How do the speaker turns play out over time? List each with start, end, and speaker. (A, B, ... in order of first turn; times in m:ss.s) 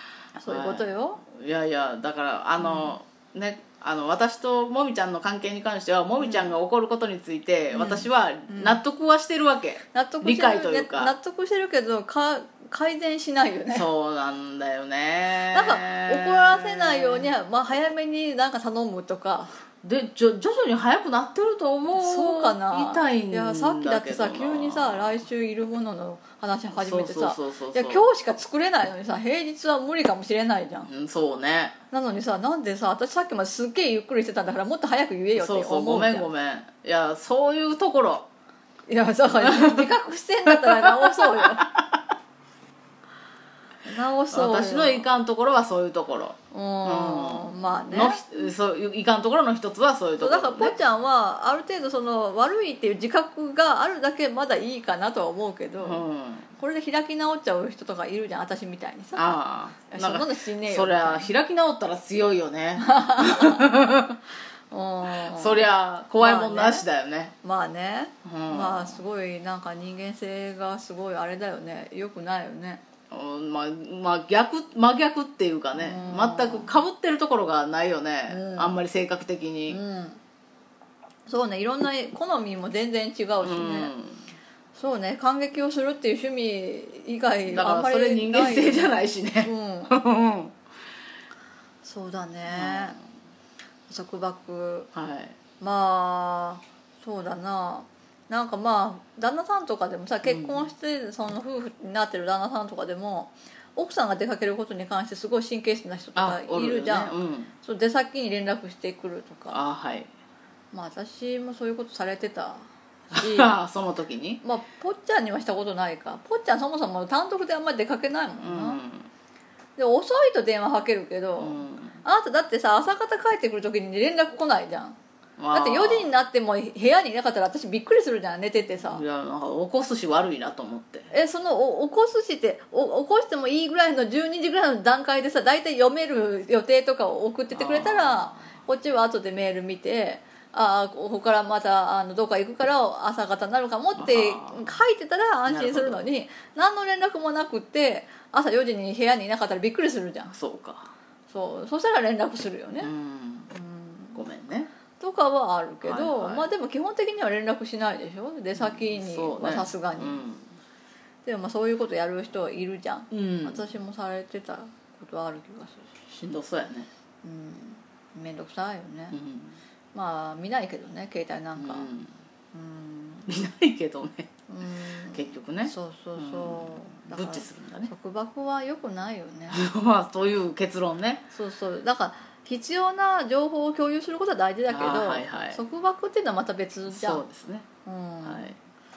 0:00.4-0:11.1 A
0:00.4-0:01.2 B
0:02.6-0:02.9 B
0:06.2-0:06.5 B
0:07.7-0:08.8 B
0:09.9-0:13.9 B
0:13.7-0:17.3 A
0:15.5-0:19.5 B
0:19.8-0:25.2 A
0:21.9-0:30.9 B
0:26.8-0:28.0 A
0:30.9-0:31.7 A
0:31.9-0:36.3 B
0:35.3-0:38.2 A
0:38.9-0:41.7 B
0:39.4-0:39.9 A
0:40.5-0:41.8 A
0:43.8-0:45.0 B
0:44.3-0:50.8 A
0:46.5-0:48.2 B
0:50.2-0:56.0 B
0:55.8-0:56.5 A
0:56.6-1:01.3 B
0:59.1-1:04.2 A
1:02.8-1:03.7 B
1:04.7-1:06.8 B
1:05.2-1:07.3 A
1:07.4-1:12.8 B
1:08.2-1:09.0 A
1:13.1-1:19.8 A
1:15.7-1:16.7 B
1:18.3-1:18.8 B
1:19.7-1:20.2 B
1:21.3-1:23.9 B
1:23.4-1:24.2 A
1:24.8-1:30.0 B
1:27.5-1:30.5 A
1:31.8-1:33.0 B
1:32.5-1:33.0 A
1:33.9-1:34.9 B
1:34.9-1:35.3 A
1:35.6-1:49.6 B
1:40.2-1:40.7 A
1:46.2-1:47.5 A
1:49.5-1:50.1 A
1:50.7-1:53.5 B
1:53.1-1:54.4 A
1:54.4-1:58.8 B
1:58.4-1:59.1 A
1:59.8-2:05.0 B
2:01.4-2:02.0 A
2:05.4-2:06.1 A
2:05.5-2:09.0 B
2:08.8-2:11.1 A
2:11.1-2:30.3 B
2:17.5-2:18.3 A
2:24.0-2:24.7 A
2:25.4-2:26.1 A
2:30.3-2:30.9 A
2:31.3-2:32.9 B
2:32.8-2:33.5 A
2:33.5-2:34.2 B
2:34.1-2:34.7 A
2:35.0-2:40.2 B
2:35.8-2:36.5 A
2:38.6-2:40.4 A
2:41.2-2:45.9 B
2:43.1-2:43.6 A
2:46.1-2:46.9 A
2:47.2-2:49.2 B
2:49.1-2:49.6 A
2:49.9-2:51.9 B
2:51.6-2:52.1 A
2:52.5-2:53.3 B
2:53.3-2:54.3 A
2:54.5-2:59.6 B
2:55.1-2:57.9 A
2:59.5-3:01.3 A
3:01.3-3:07.2 B
3:04.7-3:05.6 A
3:06.9-3:07.7 A
3:07.8-3:08.5 B
3:08.2-3:08.6 A